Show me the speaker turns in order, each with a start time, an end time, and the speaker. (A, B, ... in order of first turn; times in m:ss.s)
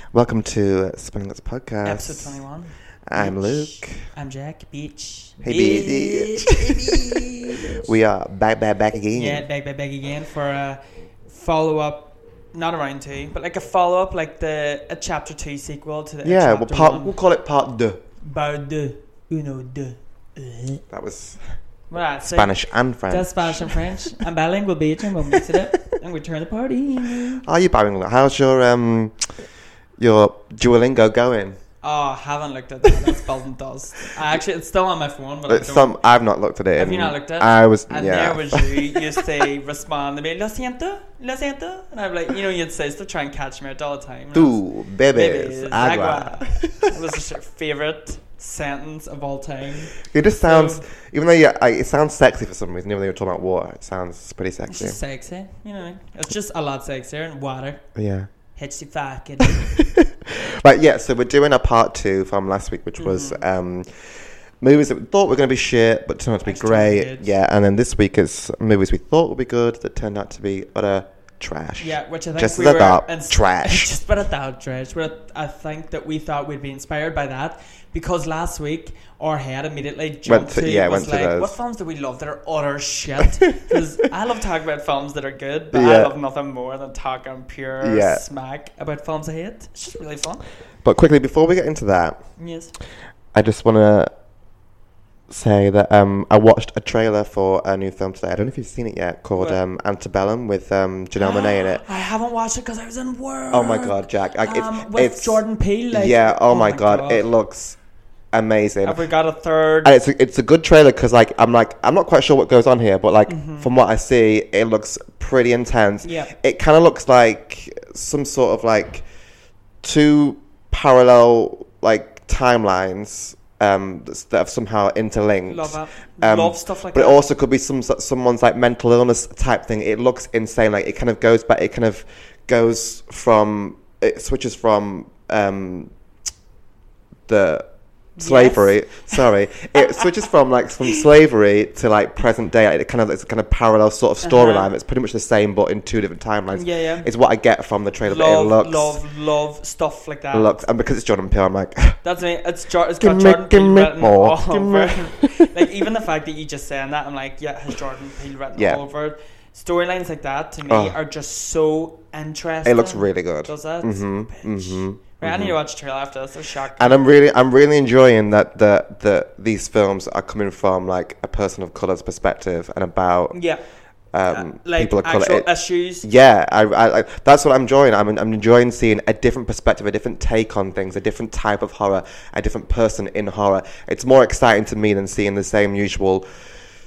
0:00.1-0:02.4 A
0:01.8-0:07.8 B
0:03.1-0:04.0 A
0:05.4-0:09.4 A
0:09.1-0:17.1 B
0:16.2-0:18.0 A
0:18.2-0:20.8 B
0:20.9-0:21.4 A
0:21.9-0:22.5 B
0:22.2-0:23.8 A
0:23.1-0:27.4 B
0:25.3-0:25.6 A
0:27.4-0:29.3 A
0:30.0-0:31.6 A
0:31.8-0:36.0 B
0:35.5-0:39.0 A
0:36.8-0:44.6 B
0:44.3-0:46.9 A
0:45.1-0:50.8 B
0:50.0-0:55.0 A
0:54.7-0:57.8 B
0:58.0-0:58.3 A
0:58.6-0:59.6 B
0:59.4-1:04.0 A
1:03.0-1:03.4 B
1:04.6-1:13.9 A
1:06.4-1:07.3 B
1:11.8-1:30.4 B
1:20.2-1:21.5 A
1:25.7-1:26.2 A
1:27.8-1:28.2 A
1:30.8-1:32.2 A
1:32.4-1:32.7 B
1:33.3-1:34.1 A
1:35.3-1:41.8 A
1:41.2-1:47.2 B
1:43.5-1:47.8 A
1:48.3-1:49.0 A
1:48.8-1:49.9 B
1:49.8-1:59.0 A
1:53.2-1:53.7 B
1:56.0-1:56.3 B
1:59.8-2:15.9 A
2:05.5-2:07.3 B
2:17.3-2:17.7 A
2:18.2-2:20.1 B
2:18.2-2:29.0 A
2:24.2-2:24.7 B
2:26.5-2:27.1 B
2:28.0-2:30.6 B
2:30.3-2:32.0 A
2:32.0-2:47.0 B
2:33.0-2:35.6 A
2:38.6-2:38.8 A
2:40.7-2:41.0 A
2:42.6-2:45.6 A
2:46.8-2:53.4 A
2:53.3-2:53.6 B
2:54.1-2:55.5 A
2:54.3-2:56.0 B
2:56.0-3:06.2 A